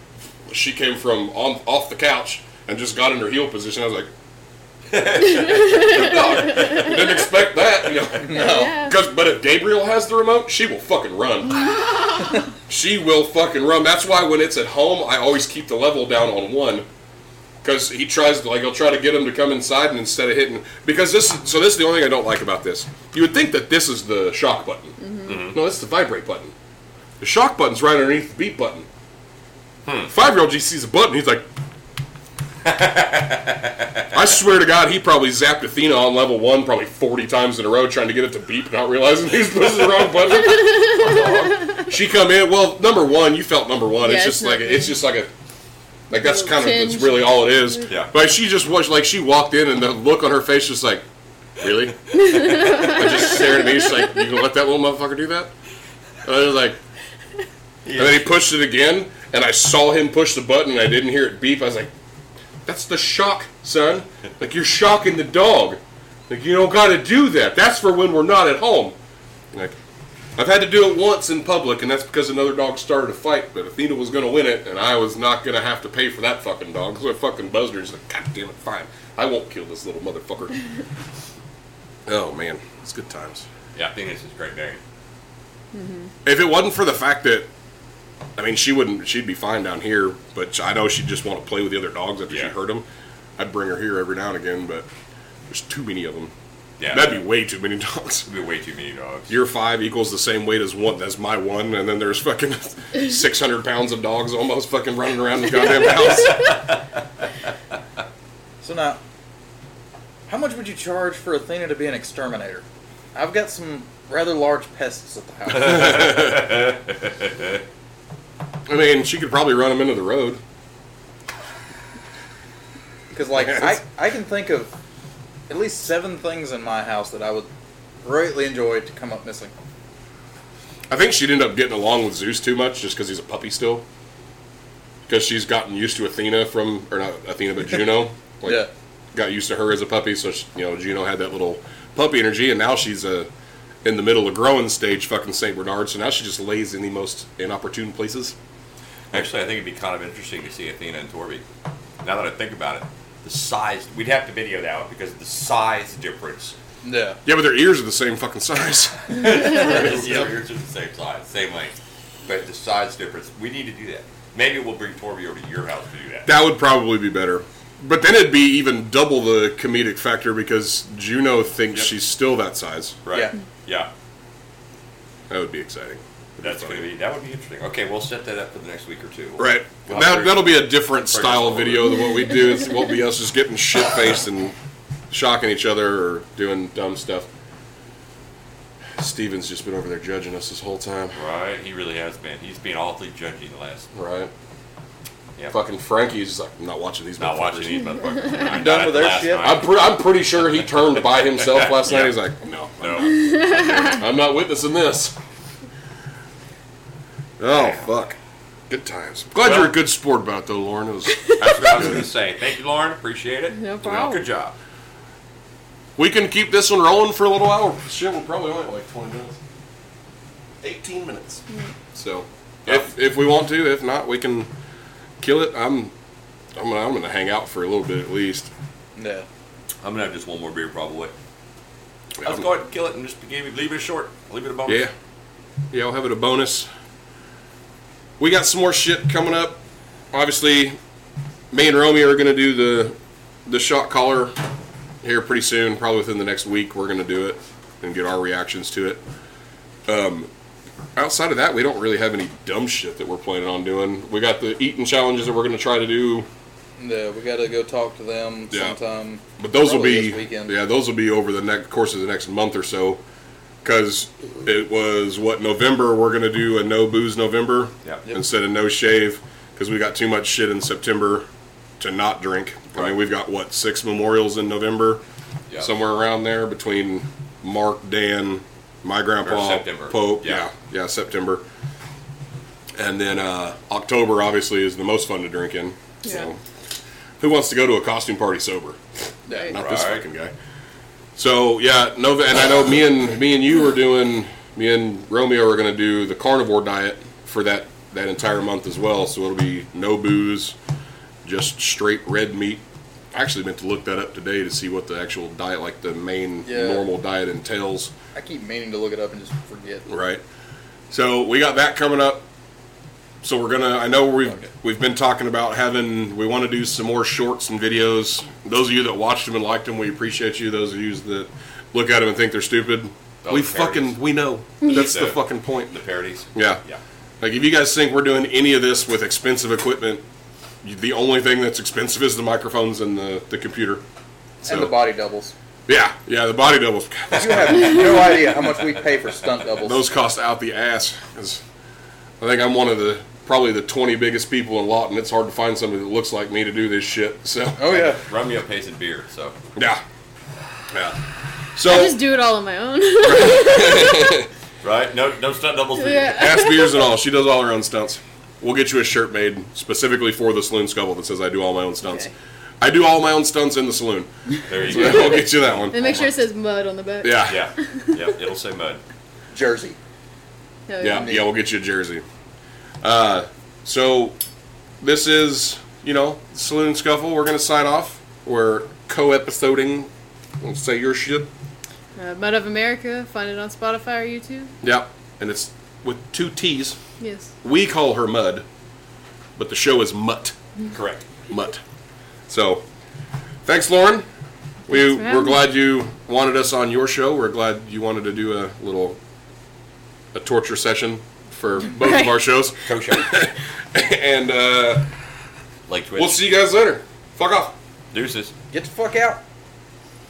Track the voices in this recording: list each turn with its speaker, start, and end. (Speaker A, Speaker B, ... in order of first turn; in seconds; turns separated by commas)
Speaker A: 0.5-4.1, Speaker B: 4.9-6.9, Speaker C: 5.4-6.8, Speaker A: 5.5-11.7, Speaker D: 8.2-8.8, Speaker C: 8.3-8.9, Speaker A: 12.7-16.9, Speaker A: 17.6-26.5, Speaker C: 25.0-25.3, Speaker B: 25.2-25.6, Speaker A: 27.2-28.9, Speaker B: 29.9-30.1, Speaker A: 30.1-31.5, Speaker B: 32.6-34.1, Speaker A: 34.1-45.3, Speaker C: 40.6-40.9, Speaker C: 44.0-45.0, Speaker A: 46.1-51.0, Speaker C: 46.1-47.8, Speaker A: 51.6-55.5, Speaker C: 52.3-53.0, Speaker A: 56.2-56.8, Speaker B: 57.8-58.3, Speaker A: 58.0-61.9, Speaker A: 62.6-69.0, Speaker A: 70.4-80.5, Speaker A: 82.1-83.5, Speaker B: 83.8-84.8, Speaker C: 85.7-86.1, Speaker A: 86.2-87.5, Speaker A: 88.4-92.9, Speaker A: 93.4-94.9, Speaker A: 95.5-96.3, Speaker B: 96.8-97.2, Speaker A: 96.9-98.3, Speaker B: 98.3-99.3, Speaker A: 99.3-106.5, Speaker B: 106.3-106.8, Speaker D: 108.6-109.0, Speaker D: 110.3-116.3, Speaker B: 115.6-117.5, Speaker A: 115.9-116.4, Speaker A: 118.7-120.4, Speaker D: 123.1-124.7, Speaker A: 123.5-123.8, Speaker D: 125.5-127.5, Speaker D: 128.0-129.5, Speaker A: 130.9-133.8, Speaker A: 135.1-143.3, Speaker A: 143.8-148.3, Speaker B: 149.1-151.4, Speaker B: 152.0-156.6, Speaker D: 156.8-157.2, Speaker A: 157.2-160.3, Speaker B: 159.1-166.3, Speaker A: 166.3-173.0, Speaker B: 173.1-173.9, Speaker A: 175.3-176.9, Speaker B: 176.4-182.0, Speaker A: 179.4-184.6, Speaker A: 185.1-187.3, Speaker A: 189.0-191.2, Speaker B: 191.2-193.9, Speaker A: 193.9-194.3, Speaker A: 195.5-198.0, Speaker B: 197.2-199.7, Speaker D: 198.4-199.6, Speaker A: 199.4-205.2, Speaker B: 201.4-202.2, Speaker B: 202.8-204.0, Speaker C: 203.2-204.0, Speaker A: 207.4-208.2, Speaker B: 207.5-207.8, Speaker A: 208.7-212.1, Speaker B: 209.4-209.8, Speaker B: 211.4-214.6, Speaker C: 213.5-214.2, Speaker A: 216.0-219.4, Speaker A: 220.6-221.4, Speaker A: 221.9-224.5, Speaker A: 225.2-225.9, Speaker A: 226.6-228.5, Speaker D: 229.0-229.3, Speaker B: 229.8-231.1, Speaker A: 232.2-232.5, Speaker B: 232.2-234.8, Speaker A: 234.7-234.9, Speaker A: 235.7-236.7, Speaker A: 238.2-239.6, Speaker A: 240.1-240.8, Speaker A: 241.5-244.3, Speaker A: 245.0-249.0, Speaker A: 249.9-250.3, Speaker A: 251.0-256.3, Speaker D: 256.8-260.6, Speaker A: 258.5-258.8, Speaker A: 259.4-263.0, Speaker A: 263.6-271.3, Speaker A: 271.8-275.0, Speaker A: 275.6-281.4, Speaker B: 279.2-280.5, Speaker A: 282.8-286.4, Speaker A: 287.2-288.8, Speaker D: 289.3-289.5, Speaker A: 289.4-290.3, Speaker B: 289.5-290.1, Speaker A: 291.2-300.6, Speaker A: 301.2-307.9, Speaker D: 306.4-306.9, Speaker D: 308.1-309.9, Speaker A: 309.9-310.2, Speaker A: 310.9-312.2, Speaker A: 313.2-325.8, Speaker B: 323.2-324.0, Speaker B: 324.7-326.8, Speaker A: 326.4-326.6, Speaker A: 327.2-330.0, Speaker A: 330.6-333.8, Speaker A: 334.4-334.8, Speaker D: 334.4-335.3, Speaker A: 335.7-338.2, Speaker D: 337.1-339.8, Speaker A: 339.6-341.4, Speaker A: 342.2-347.6, Speaker D: 347.6-348.0, Speaker B: 347.7-349.4, Speaker A: 349.6-349.8, Speaker A: 350.7-351.0, Speaker A: 351.6-352.0, Speaker C: 351.6-354.2, Speaker A: 353.0-354.3, Speaker B: 354.6-356.2, Speaker C: 355.8-356.9, Speaker A: 356.1-364.1, Speaker C: 361.8-362.1, Speaker B: 364.5-366.1, Speaker A: 364.6-366.0, Speaker C: 364.6-368.0, Speaker A: 367.0-367.4, Speaker B: 367.2-368.8, Speaker D: 369.3-369.8, Speaker C: 370.7-371.2, Speaker A: 370.8-372.0, Speaker D: 370.8-371.3, Speaker A: 372.8-374.2, Speaker A: 374.8-379.9, Speaker A: 380.4-381.3, Speaker C: 382.0-384.5, Speaker A: 384.6-386.8, Speaker C: 387.0-387.3, Speaker A: 387.4-388.4, Speaker A: 389.4-390.3, Speaker B: 390.7-391.0, Speaker A: 391.3-391.6, Speaker A: 392.3-392.6, Speaker A: 393.4-394.1, Speaker A: 394.7-399.0, Speaker C: 394.7-395.4, Speaker A: 400.1-404.9, Speaker C: 401.8-402.2, Speaker B: 402.6-403.2, Speaker B: 405.7-406.4, Speaker A: 406.0-407.5, Speaker B: 407.9-408.3, Speaker D: 408.5-409.2